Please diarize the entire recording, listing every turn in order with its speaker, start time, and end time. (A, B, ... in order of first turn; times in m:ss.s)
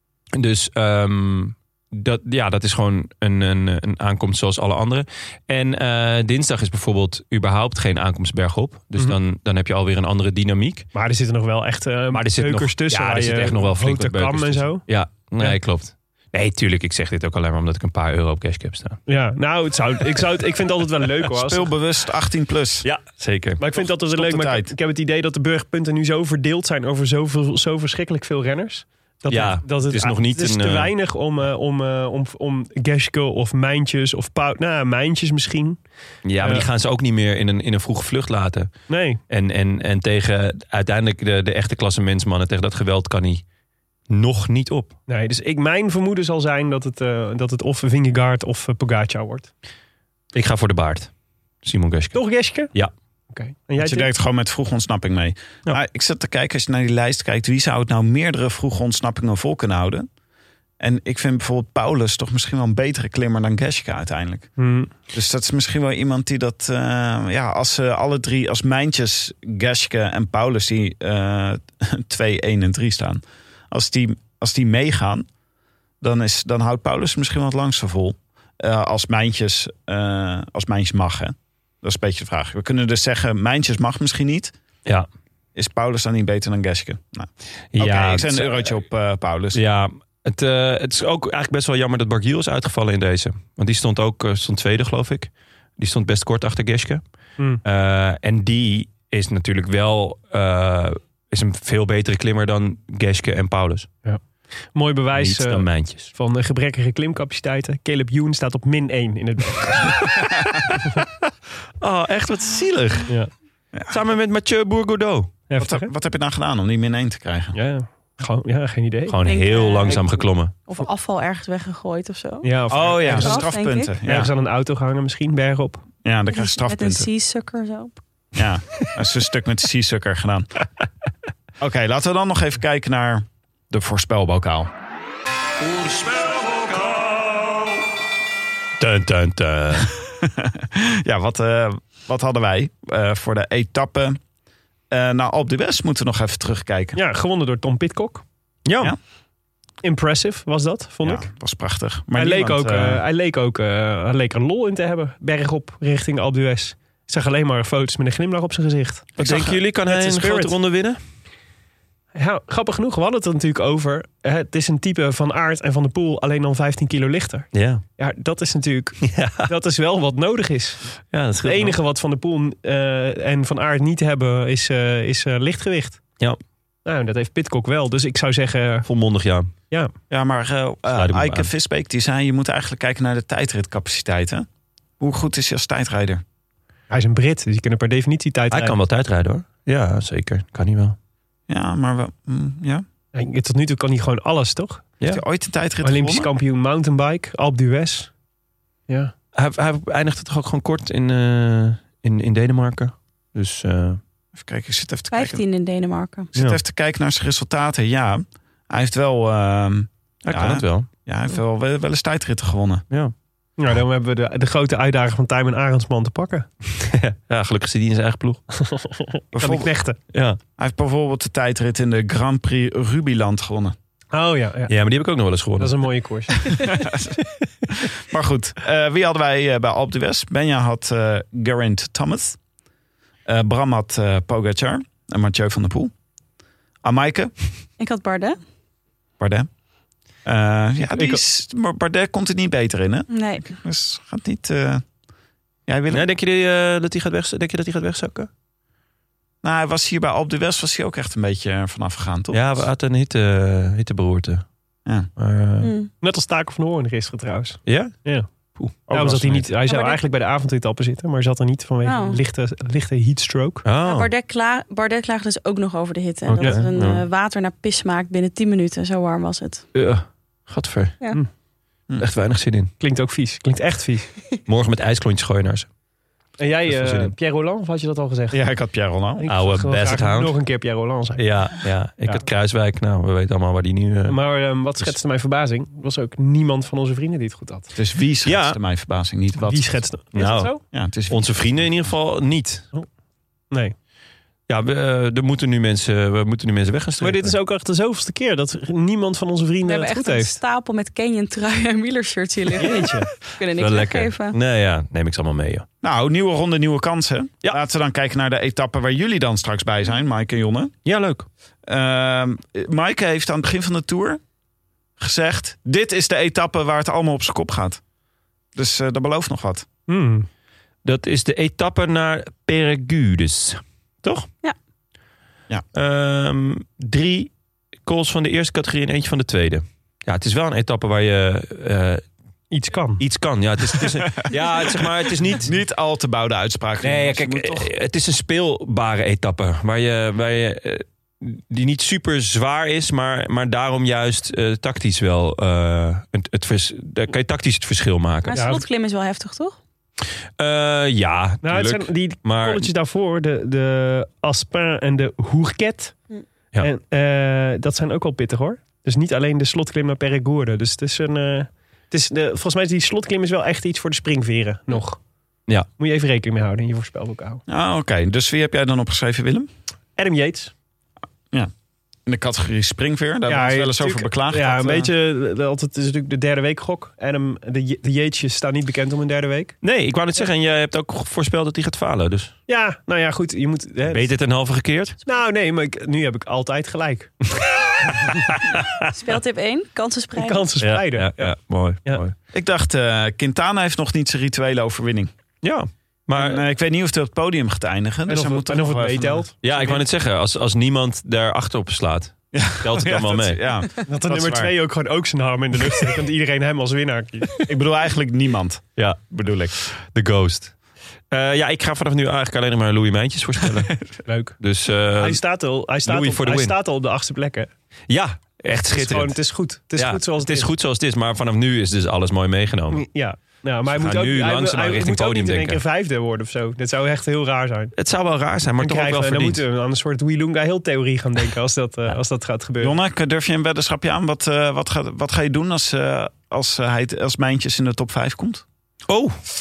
0:00.3-0:10.9 A
0:11.0-0:14.8 B
0:12.1-0:19.0 A
0:19.1-0:21.7 B
0:21.3-0:22.9 C
0:22.8-0:23.6 A
0:23.6-0:35.8 B
0:23.8-0:24.7 C
0:29.3-0:30.9 A
0:36.2-0:38.7 A
0:38.9-0:39.2 B
0:39.3-0:43.4 A
0:44.1-0:45.0 A
0:45.1-0:49.5 B
0:50.3-0:51.1 A
0:51.6-0:52.2 A
0:52.1-0:52.7 B
0:53.3-0:54.1 B
0:53.8-1:00.1 C
1:00.8-1:04.5 C
1:04.6-1:04.9 B
1:05.1-1:15.3 C
1:16.0-1:24.5 C
1:25.6-1:29.6 C
1:27.7-1:28.7 A
1:29.5-1:37.0 A
1:37.6-1:43.9 A
1:44.7-1:50.1 B
1:45.2-1:46.1 A
1:51.8-1:53.1 A
1:53.9-1:55.3 A
1:55.5-1:55.9 B
1:55.6-1:57.6 C
1:57.6-1:59.2 B
1:59.1-2:00.6 A
1:59.2-2:04.0 D
2:02.4-2:03.5 B
2:02.7-2:04.3 C
2:04.0-2:05.8 B
2:06.0-2:07.1 C
2:06.3-2:08.0 D
2:08.4-2:10.5 C
2:11.6-2:14.7 C
2:15.6-2:17.7 A
2:18.8-2:19.9 A
2:19.9-2:24.2 C
2:24.9-2:27.0 C
2:27.0-2:28.2 B
2:28.6-2:28.9 A
2:29.8-2:31.3 B
2:31.0-2:33.0 C
2:32.1-2:40.6 B
2:39.2-2:41.0 A
2:42.2-2:50.9 B
2:47.5-2:47.8 A
2:49.0-2:49.5 A
2:51.1-2:51.8 A
2:51.4-2:56.0 B
2:56.8-2:58.9 B
2:58.8-2:59.5 A
3:00.1-3:04.5 C
3:00.9-3:01.5 A
3:05.0-3:06.2 C
3:06.9-3:08.8 B
3:08.5-3:11.0 A
3:11.5-3:12.8 C
3:13.1-3:14.8 B
3:15.1-3:16.3 C
3:15.8-3:18.1 B
3:19.3-3:24.0 A
3:24.4-3:25.4 C
3:25.1-3:26.3 D
3:26.3-3:32.8 C
3:30.2-3:30.9 A
3:33.6-3:36.5 B
3:36.8-3:38.4 A
3:38.6-3:40.0 B
3:39.3-3:39.7 C
3:40.1-3:40.4 A
3:40.6-3:43.8 C
3:44.1-3:44.7 B
3:44.7-3:45.8 A
3:45.6-3:46.6 B
3:46.5-3:52.4 C
3:53.3-3:55.9 C
3:56.8-3:57.3 C
3:57.8-3:58.4 D
3:59.2-3:59.5 C
4:00.2-4:04.8 C
4:00.9-4:01.2 B
4:03.1-4:03.5 D
4:05.7-4:06.1 C
4:05.9-4:08.3 A
4:09.4-4:12.7 C
4:12.3-4:14.4 A
4:15.2-4:15.7 A
4:15.6-4:15.9 D
4:16.0-4:18.3 B
4:17.7-4:18.0 A
4:18.6-4:19.4 A
4:18.9-4:23.6 B
4:18.9-4:19.3 C
4:19.7-4:20.0 D
4:21.8-4:22.2 D
4:23.6-4:24.1 A
4:23.8-4:29.6 D
4:26.3-4:27.0 A
4:26.4-4:26.6 B
4:29.7-4:31.0 A
4:32.0-4:32.7 A
4:32.8-4:34.1 B
4:34.5-4:35.7 A
4:36.4-4:38.4 B
4:36.7-4:37.1 A
4:38.3-4:39.3 C
4:39.2-4:41.3 B
4:39.3-4:40.4 A
4:41.2-4:44.2 A
4:44.1-4:47.7 B
4:47.8-4:49.8 C
4:48.2-4:48.6 A
4:49.4-4:50.6 B
4:50.1-4:50.5 A
4:50.7-4:51.9 C
4:51.1-4:52.7 A
4:54.5-4:57.4 A
4:57.0-5:00.4 B
4:59.6-5:04.4 D
5:02.6-5:03.1 B
5:03.4-5:05.6 A
5:05.8-5:10.7 C
5:10.8-5:11.3 A
5:11.7-5:14.2 C
5:15.0-5:17.8 C
5:18.6-5:19.7 C
5:19.9-5:20.3 B
5:20.8-5:24.3 A
5:25.7-5:27.3 A
5:27.8-5:32.0 A
5:32.5-5:33.0 B
5:33.0-5:35.5 A
5:34.2-5:37.7 C
5:36.8-5:48.4 A
5:48.3-5:49.6 D
5:48.3-5:48.6 B
5:50.4-5:52.7 A
5:51.4-5:56.0 B
5:56.6-6:05.0 B
6:05.8-6:07.4 B
6:07.5-6:09.5 C
6:10.0-6:10.5 B
6:12.1-6:14.9 C
6:13.3-6:19.6 B
6:19.6-6:22.3 A
6:22.5-6:24.1 B
6:23.9-6:25.0 A
6:25.0-6:27.2 B
6:27.8-6:28.3 B
6:28.0-6:28.4 A
6:28.9-6:30.5 D
6:30.2-6:32.0 B
6:30.6-6:32.1 A
6:32.3-6:35.1 C
6:35.4-6:36.4 A
6:36.1-6:39.3 C
6:38.1-6:39.8 B
6:39.4-6:43.4 A
6:42.3-6:44.5 C
6:43.9-6:47.5 B
6:47.5-6:49.5 C
6:49.6-6:50.6 A
6:51.1-6:53.9 A
6:54.1-6:54.4 B
6:54.4-6:55.2 A
6:55.0-6:57.5 B
6:55.8-6:56.6 A
6:57.9-6:59.2 A
6:58.7-7:00.5 B
6:59.8-7:02.8 A
7:02.7-7:07.7 B
7:03.7-7:05.6 A
7:07.8-7:09.4 A
7:08.6-7:12.8 B
7:12.6-7:18.4 C
7:18.9-7:19.2 A